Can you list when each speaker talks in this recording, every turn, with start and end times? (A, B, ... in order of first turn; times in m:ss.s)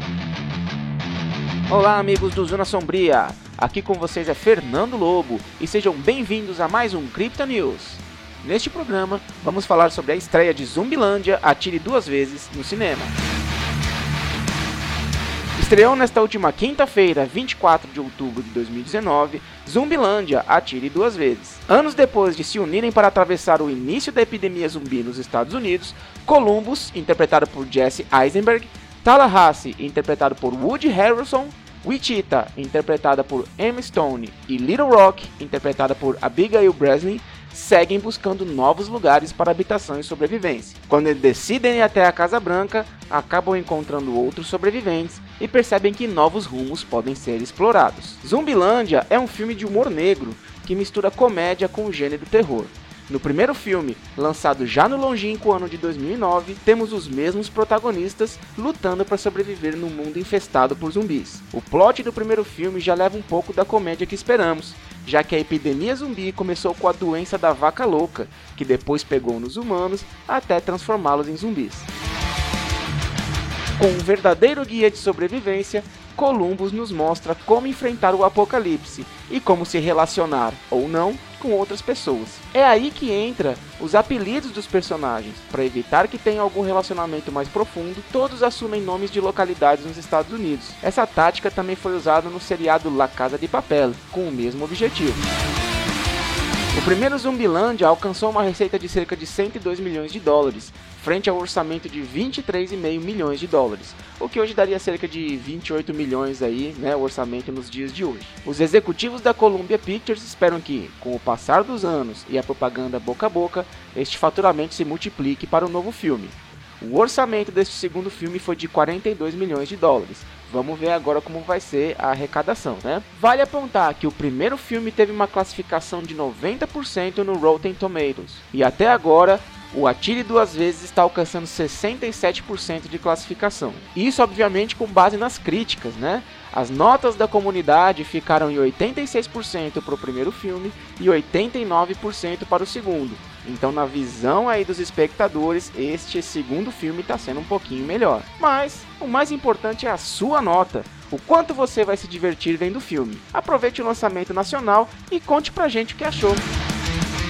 0:01.7-0:13.1 A
0:15.6-1:11.9 A
1:13.8-1:35.2 A
1:36.7-2:36.5 A